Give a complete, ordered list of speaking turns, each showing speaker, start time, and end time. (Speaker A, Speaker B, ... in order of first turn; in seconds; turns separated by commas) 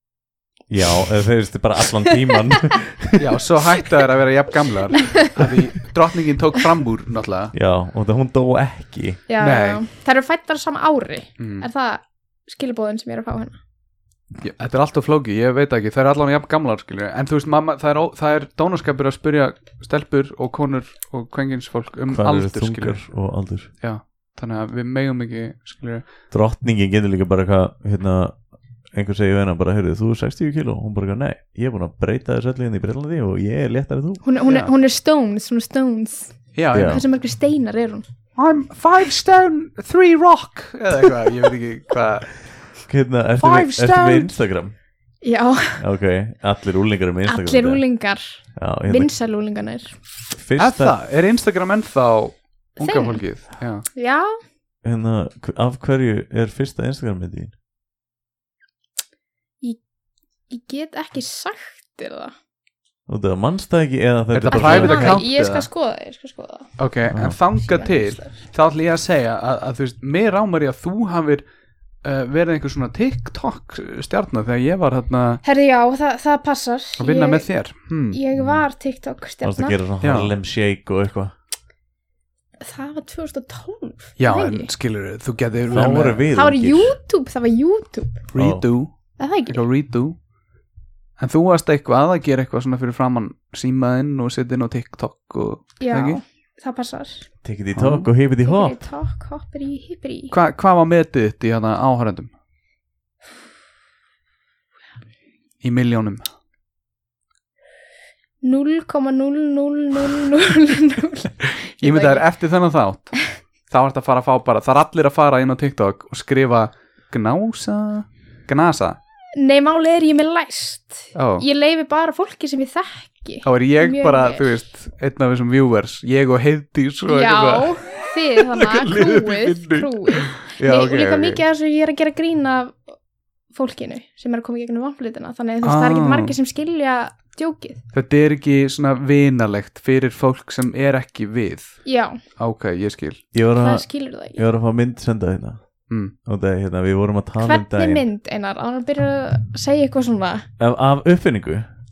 Speaker A: 0.7-3.3, Speaker B: 3.2-7.5, Speaker A: 7.5-9.2, Speaker C: 9.3-13.6, Speaker B: 9.4-9.8, Speaker B: 11.4-11.7, Speaker B: 14.4-23.0, Speaker A: 22.1-23.7, Speaker B: 23.8-26.0, Speaker A: 26.3-28.4, Speaker A: 28.9-34.2, Speaker C: 34.2-38.0, Speaker B: 34.5-34.7, Speaker B: 36.5-37.0, Speaker A: 36.7-37.0, Speaker B: 38.4-42.3, Speaker A: 42.9-44.7, Speaker B: 43.4-44.3, Speaker C: 45.2-45.8, Speaker A: 45.8-47.8, Speaker C: 47.2-49.9, Speaker A: 48.5-49.1, Speaker A: 50.3-51.0, Speaker B: 50.6-53.8, Speaker C: 52.8-53.2, Speaker C: 53.9-54.3, Speaker A: 54.8-57.5, Speaker C: 60.5-62.3, Speaker A: 63.1-65.2, Speaker B: 64.3-65.7, Speaker C: 64.5-66.7, Speaker B: 66.8-71.4, Speaker A: 67.1-67.4, Speaker C: 67.7-68.3, Speaker B: 72.0-75.4, Speaker C: 75.4-77.5, Speaker B: 77.0-78.2, Speaker C: 78.1-79.8, Speaker A: 78.3-78.6, Speaker A: 79.4-81.3, Speaker B: 80.0-80.3, Speaker C: 82.6-84.7, Speaker B: 84.2-86.3, Speaker A: 85.7-87.0, Speaker C: 86.3-88.2, Speaker B: 88.3-90.2, Speaker A: 88.3-88.7, Speaker C: 89.2-89.6, Speaker B: 91.2-96.2, Speaker C: 95.8-97.3, Speaker A: 97.4-98.8, Speaker B: 97.7-98.1, Speaker C: 98.4-100.3, Speaker B: 100.3-102.3, Speaker B: 105.6-106.2, Speaker C: 108.4-112.2, Speaker B: 111.8-119.0, Speaker C: 119.3-124.5, Speaker B: 121.1-121.4, Speaker B: 123.4-131.4, Speaker C: 127.1-132.8, Speaker C: 133.5-137.8, Speaker B: 135.6-136.3, Speaker B: 137.9-141.8, Speaker C: 141.8-142.2, Speaker B: 142.3-143.2, Speaker A: 143.3-145.6, Speaker C: 143.6-144.4, Speaker A: 146.2-148.0, Speaker C: 147.4-150.4, Speaker A: 150.6-151.7